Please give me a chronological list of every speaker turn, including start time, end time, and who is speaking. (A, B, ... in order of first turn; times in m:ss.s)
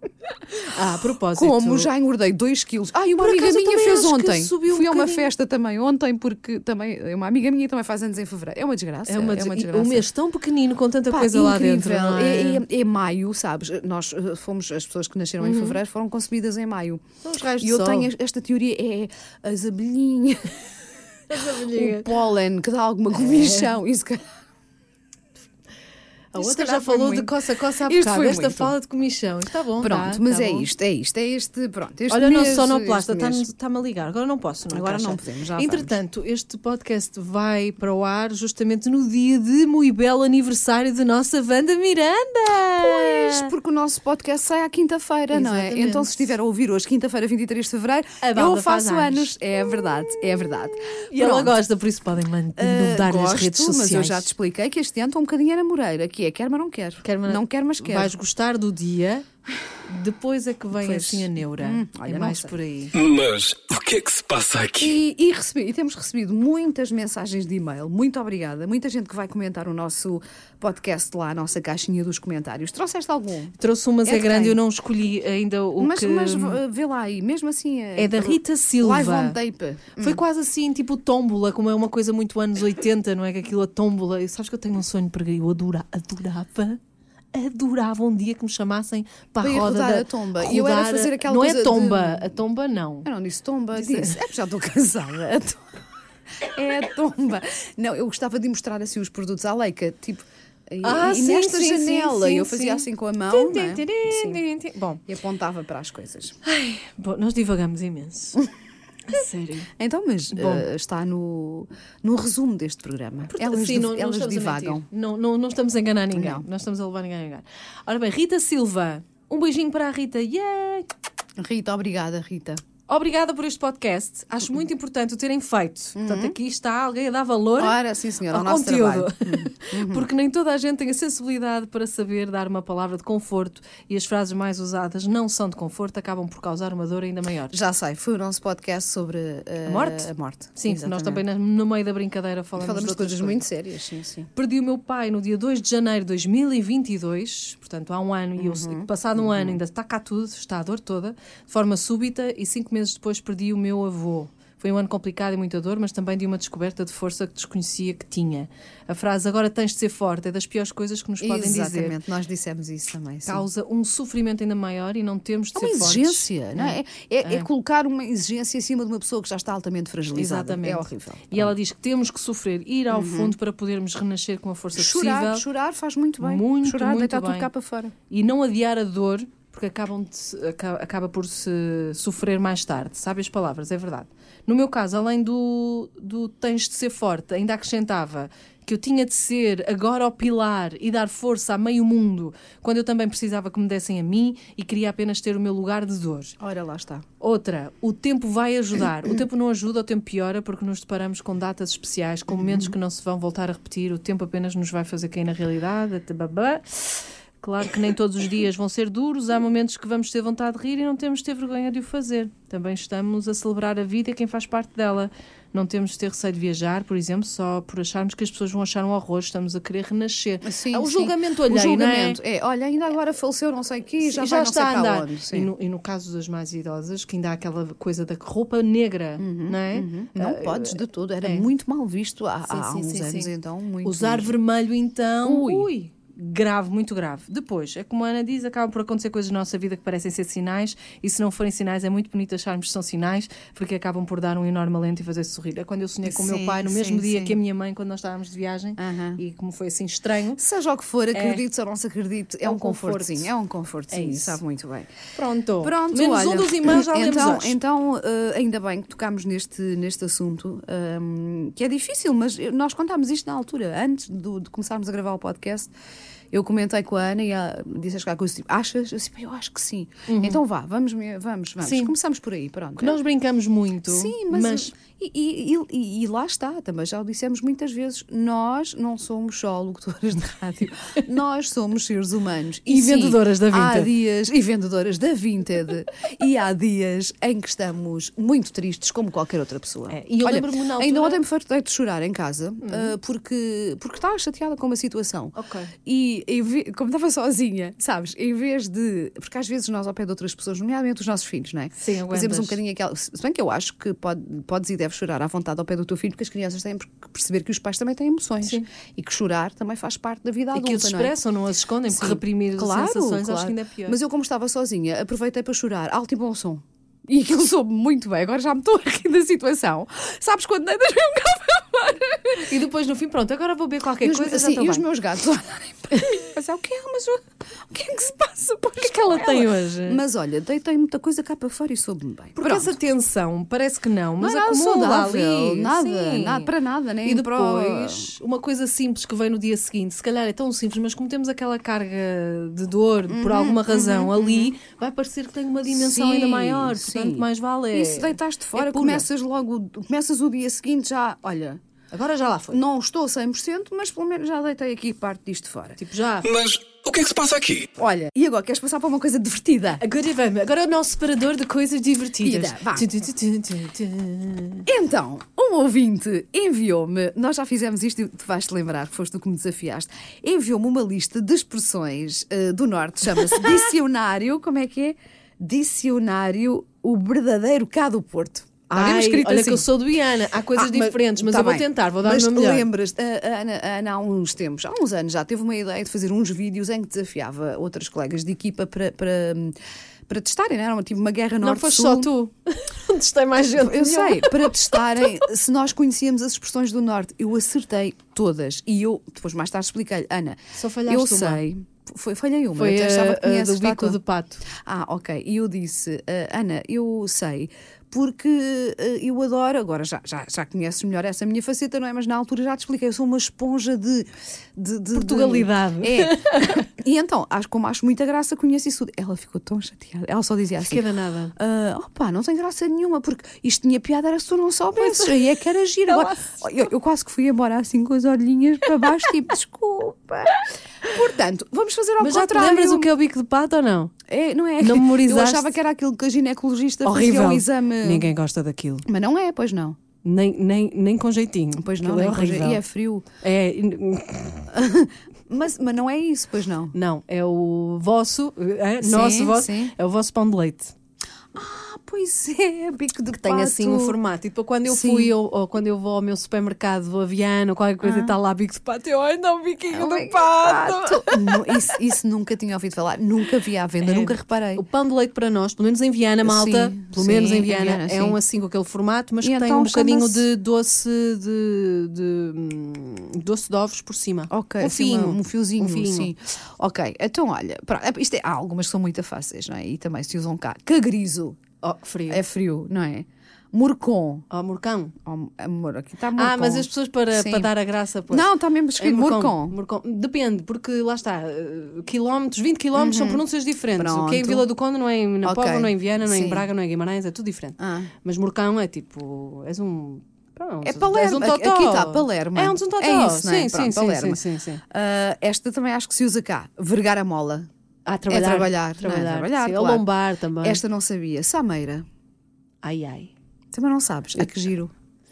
0:00.2-0:00.7 A
0:00.7-0:01.9 B
0:01.3-0:10.0 A
0:03.1-0:05.3 B
0:09.1-0:12.6 B
0:11.1-0:17.0 A
0:15.4-0:15.8 B
0:17.2-0:18.1 B
0:17.6-0:20.6 A
0:21.3-0:22.1 B
0:21.3-0:24.3 A
0:23.1-0:23.7 B
0:26.3-0:30.7 B
0:26.4-0:28.7 A
0:29.8-0:33.5 A
0:32.1-0:43.5 B
0:34.7-0:36.0 A
0:42.7-0:51.6 A
0:45.3-0:46.3 B
0:48.2-0:54.3 B
0:52.6-0:58.1 A
0:57.0-0:59.2 B
0:59.8-1:02.9 B
1:00.7-1:02.6 A
1:02.9-1:05.0 C
1:04.8-1:14.6 A
1:13.6-1:16.6 B
1:15.8-1:20.2 A
1:18.0-1:19.4 B
1:20.0-1:26.8 B
1:27.3-1:33.1 B
1:29.4-1:32.2 A
1:33.0-1:35.6 A
1:33.8-1:34.2 B
1:36.4-1:44.4 A
1:40.8-1:45.0 B
1:45.1-1:46.4 A
1:46.4-1:48.4 B
1:49.1-1:49.7 B
1:49.8-1:54.8 A
1:50.3-1:50.6 B
1:53.3-2:00.9 B
1:56.1-1:56.4 A
2:01.4-2:02.6 A
2:02.9-2:17.6 B
2:05.9-2:06.4 A
2:07.6-2:10.1 A
2:17.5-2:21.2 A
2:19.6-2:23.4 B
2:22.6-2:24.3 A
2:24.3-2:42.0 B
2:28.4-2:29.6 A
2:41.2-2:43.4 A
2:43.2-2:47.5 B
2:45.5-2:51.5 A
2:50.1-2:55.4 B
2:52.9-2:53.3 A
2:54.7-2:57.9 A
2:56.2-2:57.5 B
2:58.1-3:16.3 B
3:16.4-3:17.0 A
3:17.2-3:42.2 B
3:22.3-3:22.7 A
3:40.4-3:45.5 A
3:44.0-3:51.5 B
3:49.2-3:54.4 A
3:52.5-3:53.3 B
3:53.8-4:10.4 B
3:55.2-3:55.7 A
4:06.0-4:07.4 A
4:08.8-4:09.2 A
4:10.4-4:14.9 A
4:11.1-4:11.4 B
4:12.4-4:13.3 B
4:13.9-4:14.4 B
4:15.1-4:17.6 B
4:15.6-4:25.7 A
4:26.3-4:33.0 A
4:30.1-4:30.4 B
4:31.6-4:31.9 B
4:32.8-4:34.7 B
4:33.9-5:11.1 A
4:42.7-4:43.9 B
4:49.9-4:51.2 B
4:52.6-4:52.9 B
4:55.3-4:55.7 B
5:01.8-5:02.6 B
5:08.4-5:08.7 B
5:10.5-5:14.0 B
5:11.9-5:22.5 A
5:22.4-5:24.8 B
5:24.0-5:32.7 A
5:28.8-5:30.0 B
5:32.4-5:36.5 B
5:34.2-5:38.1 A
5:37.0-5:49.0 B
5:43.1-5:44.5 A
5:45.7-5:51.6 A
5:51.9-5:52.6 B
5:52.5-5:55.8 A
5:55.8-5:56.3 B
5:56.2-5:57.7 C
5:57.8-5:59.8 A
5:59.8-6:04.7 B
6:02.2-6:02.9 A
6:04.6-6:19.7 A
6:18.7-6:22.7 B
6:20.5-6:29.5 A
6:30.1-6:32.1 A
6:31.4-6:35.2 B
6:33.5-6:44.0 A
6:40.5-6:41.4 B
6:42.5-6:44.4 B
6:44.5-7:00.8 A
6:54.9-6:56.6 B
7:00.7-7:01.3 B
7:01.4-7:12.9 A
7:04.8-7:05.1 B
7:05.9-7:06.3 B
7:12.0-7:13.9 B
7:14.1-7:18.1 A
7:14.6-7:15.5 B
7:16.8-7:18.8 B
7:18.8-7:19.8 A
7:20.0-7:22.6 B
7:21.6-7:23.0 A
7:23.2-7:24.5 B
7:24.5-7:26.7 A
7:26.7-7:30.7 B
7:28.8-7:29.7 A
7:31.3-7:34.0 A
7:33.2-7:41.8 B
7:34.6-7:35.1 A
7:37.8-7:38.1 A
7:39.7-7:44.6 A
7:43.8-7:56.1 B
7:46.2-7:48.2 A
7:49.2-7:50.2 A
7:54.3-8:01.4 A
8:01.6-8:02.2 B
8:02.1-8:04.2 A
8:04.3-8:04.9 B
8:05.0-8:07.5 A
8:06.2-8:24.6 B
8:08.1-8:09.6 A
8:12.7-8:13.2 A
8:13.8-8:14.5 A
8:15.2-8:16.4 A
8:17.6-8:17.9 A
8:20.6-8:27.5 A
8:27.8-8:30.6 B
8:28.1-8:29.8 A
8:30.4-8:31.8 A
8:32.6-8:33.1 B
8:33.5-8:34.7 A